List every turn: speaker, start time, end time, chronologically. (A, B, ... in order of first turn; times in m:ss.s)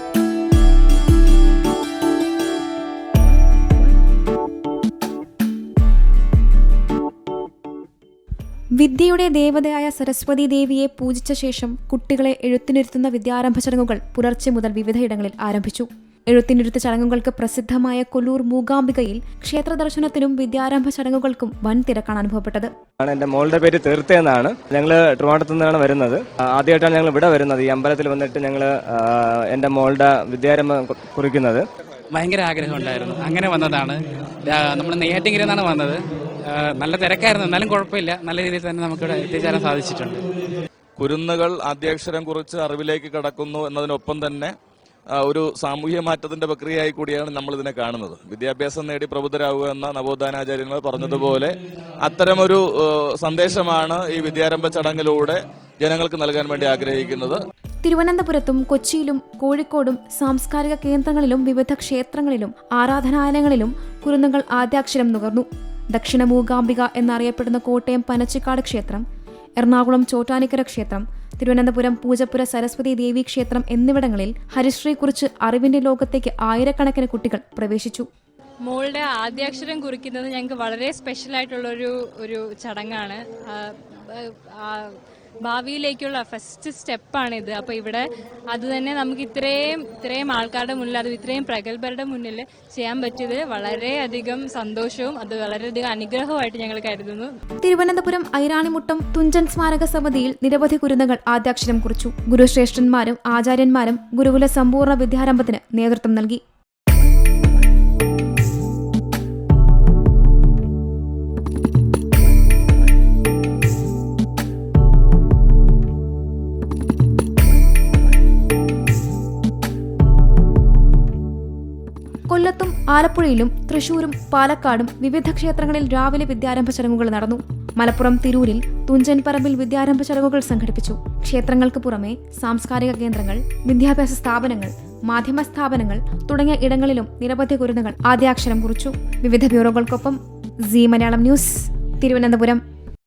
0:08.8-0:22.7 A
0:23.0-0:31.6 B
0:32.1-0:40.2 C
0:41.0-0:44.5 D
0:45.1-0:51.5 D
0:52.0-0:57.4 D
0:57.8-1:09.0 A
1:09.6-1:18.1 A
1:18.7-1:37.3 E
1:37.6-1:46.4 A
2:02.3-2:22.6 A